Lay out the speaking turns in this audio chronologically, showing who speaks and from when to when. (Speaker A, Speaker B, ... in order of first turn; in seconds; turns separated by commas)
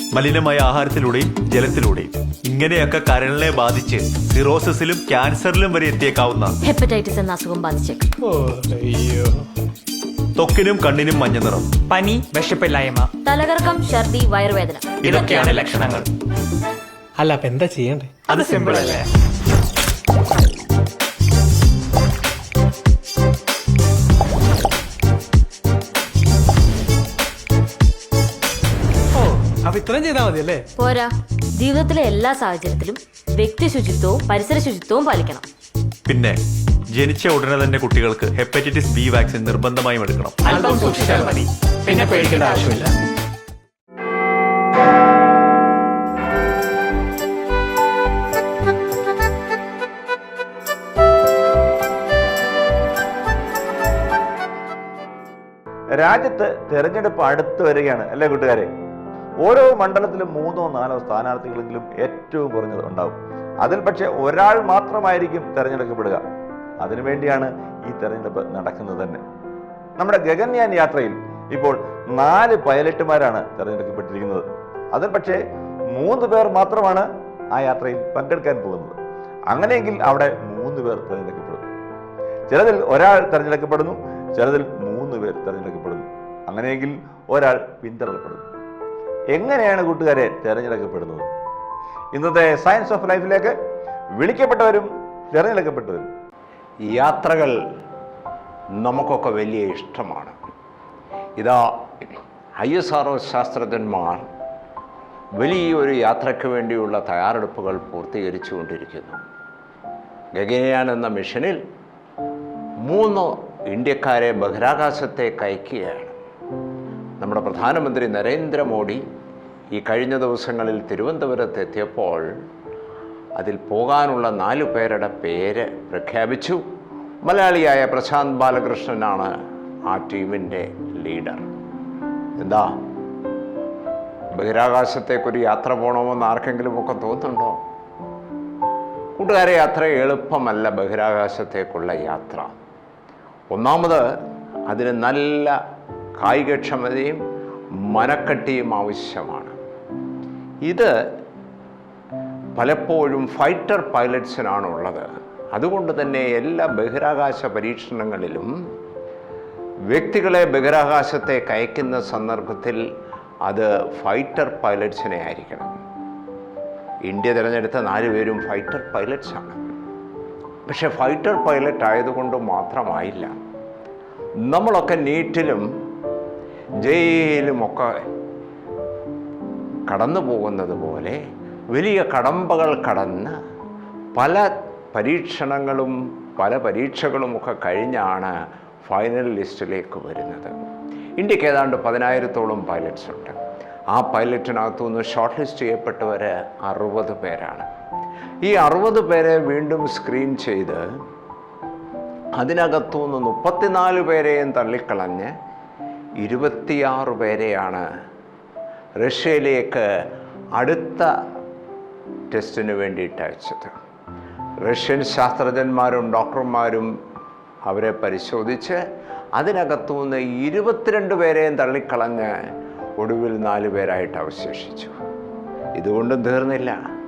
Speaker A: 0.1-6.5, Speaker B: 6.6-8.1, Speaker C: 8.2-9.5, Speaker A: 10.4-11.7, Speaker D: 11.9-13.1, Speaker B: 13.2-15.4, Speaker D: 15.0-16.1, Speaker A: 15.1-15.3, Speaker C: 17.2-19.0, Speaker D: 18.3-19.0, Speaker C: 29.1-30.6, Speaker B: 30.8-35.5, Speaker A: 36.1-36.4, Speaker A: 36.9-40.4, Speaker D: 40.4-42.9, Speaker E: 56.0-58.7, Speaker E: 59.4-66.2, Speaker E: 66.8-69.2, Speaker E: 70.0-75.4, Speaker E: 75.9-79.0, Speaker E: 79.5-81.7, Speaker E: 82.5-88.4, Speaker E: 89.3-91.2, Speaker E: 92.1-93.5, Speaker E: 94.2-96.1, Speaker F: 96.9-97.5, Speaker F: 98.8-100.3, Speaker F: 101.4-104.2, Speaker F: 105.3-109.2, Speaker F: 110.3-111.6, Speaker F: 112.8-116.2, Speaker F: 117.2-119.0, Speaker F: 119.7-122.3, Speaker F: 123.3-126.7, Speaker F: 127.2-129.3, Speaker F: 129.9-131.5, Speaker F: 132.4-132.7, Speaker F: 134.3-137.6, Speaker F: 139.2-142.5, Speaker F: 143.5-144.1, Speaker F: 144.7-145.6, Speaker F: 146.2-147.2, Speaker F: 147.9-149.5, Speaker F: 150.6-150.9, Speaker F: 152.6-158.5, Speaker F: 159.9-162.8, Speaker F: 163.5-165.8, Speaker F: 167.0-169.6, Speaker F: 170.7-173.3, Speaker F: 174.5-175.7, Speaker F: 176.8-177.9, Speaker F: 179.9-181.2, Speaker F: 181.7-183.3, Speaker F: 184.2-190.5, Speaker F: 191.2-193.4, Speaker F: 193.9-197.7, Speaker F: 198.4-200.8, Speaker F: 202.4-205.3, Speaker F: 206.2-207.8, Speaker F: 209.0-209.9, Speaker F: 210.6-211.1, Speaker F: 212.3-213.7, Speaker F: 214.6-216.9, Speaker F: 217.7-218.8, Speaker F: 219.3-222.3, Speaker F: 223.0-224.9, Speaker F: 225.8-226.8